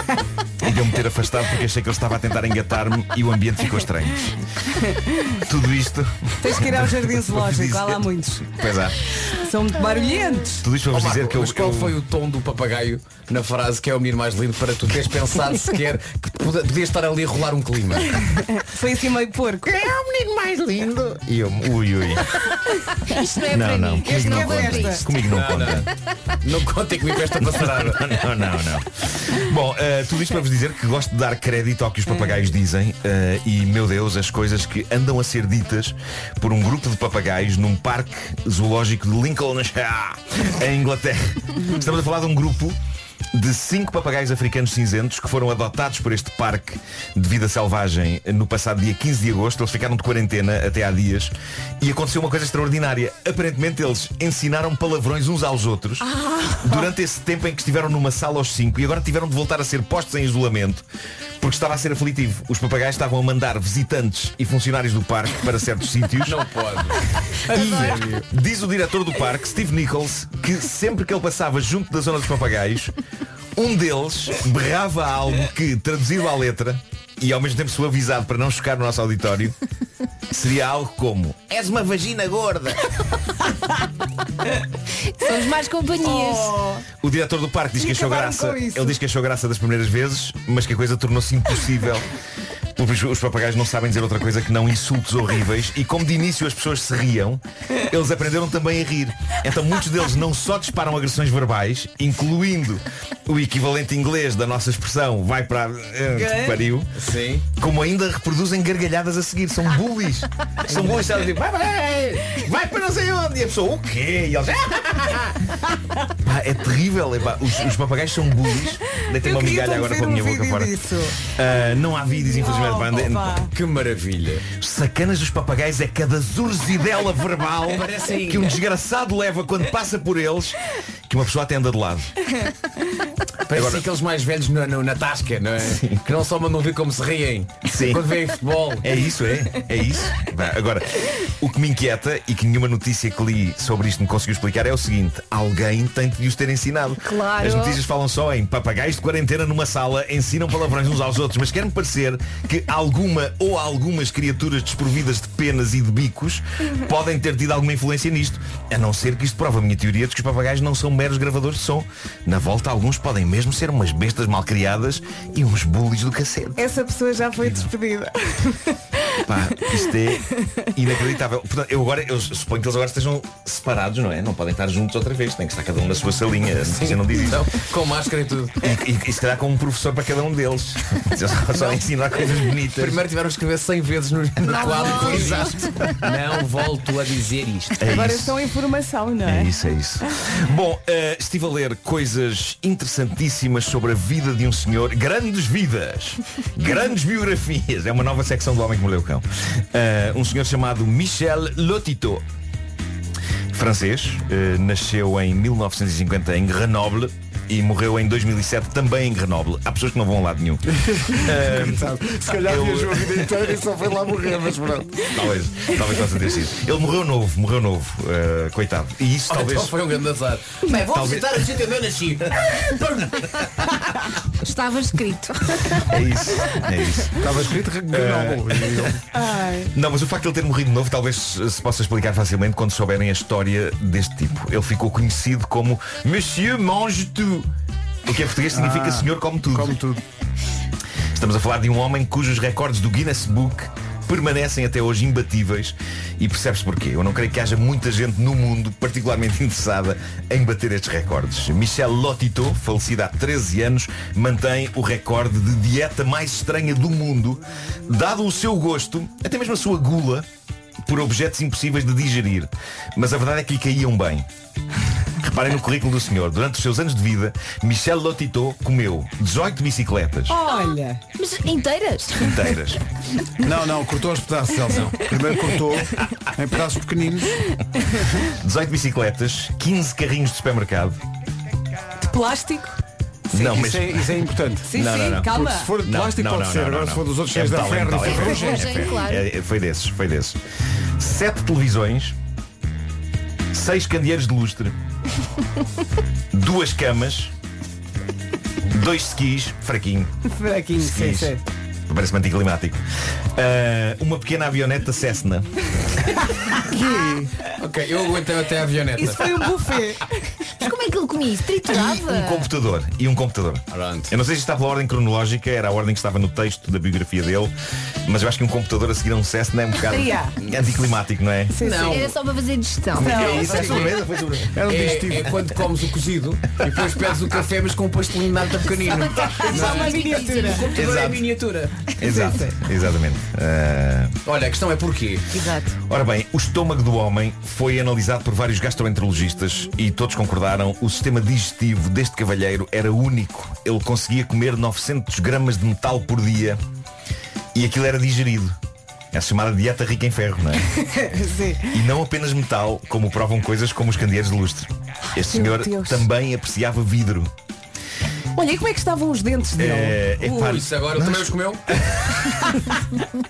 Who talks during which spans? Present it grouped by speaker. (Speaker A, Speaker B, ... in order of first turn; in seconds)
Speaker A: 0.6-4.3, 5.3-9.0, 10.6-11.9, 19.6-22.4, 23.5-25.9, 27.4-42.8, 43.3-60.8, 61.4-66.4, 67.5-72.9, 73.6-79.5, 80.3-82.8, 87.0-92.1, 92.8-106.9, 107.6-115.3, 116.2-123.5, 124.5-130.6, 131.1-132.1, 133.5-133.8, 135.6-136.1, 137.6-138.1, 138.8-166.6, 169.2-177.6, 178.6-183.0, 184.4-185.9, 187.8-188.4, 189.2-202.2, 203.5-213.3, 215.0-219.7, 220.7-221.5, 225.9-227.3, 227.9-229.0, 229.7-237.5, 238.1-239.8, 241.1-260.2, 260.8-264.2, 265.2-270.4, 272.2-272.8, 278.3-281.0, 283.3-284.1, 284.7-290.4, 291.0-292.1, 293.5-294.7, 296.3-297.3, 298.7-300.1, 300.8-301.4, 301.9-302.8, 303.3-305.5, 311.6-317.5, 318.1-321.6, 322.9-324.5, 330.8-331.2, 332.0-334.1, 335.9-346.6, 347.5-348.6, 349.1-350.6, 351.7-357.3, 359.6-361.4
Speaker B: 6.4-8.5, 9.2-10.6, 18.2-19.7, 24.0-25.1, 41.6-41.9, 56.0-56.9, 86.0-86.8, 87.8-89.0, 106.2-106.5, 119.1-121.2, 122.2-123.5, 166.6-168.7, 187.8-189.6, 229.1-229.7, 270.3-271.0, 282.0-282.8, 284.6-285.8, 300.2-301.4, 308.9-310.1, 319.8-320.4, 321.5-322.1, 323.0-323.8, 329.2-330.8, 332.1-332.5, 350.7-351.8, 355.1-356.1, 358.3-360.4
Speaker C: 10.9-18.2, 25.2-25.9, 26.4-28.2, 66.2-68.2, 107.0-107.5, 123.5-124.5, 127.7-128.6, 133.5-139.0, 176.5-178.7, 182.7-187.8, 219.3-223.1, 274.7-275.0, 307.6-309.3, 313.7-314.1, 321.6-322.1, 323.3-324.0, 324.6-331.8, 334.2-335.3, 360.2-361.6
Speaker D: 23.1-25.2, 67.5-68.0, 85.1-86.5, 147.0-147.8, 184.4-186.2, 224.4-226.0, 270.4-272.4, 288.0-289.3, 310.6-312.5, 321.9-323.6, 329.3-331.0, 332.0-332.4, 335.3-335.7
Speaker E: 210.7-215.1, 227.1-229.0, 238.5-240.0, 273.4-277.4, 283.3-288.9, 306.6-307.4, 323.5-325.5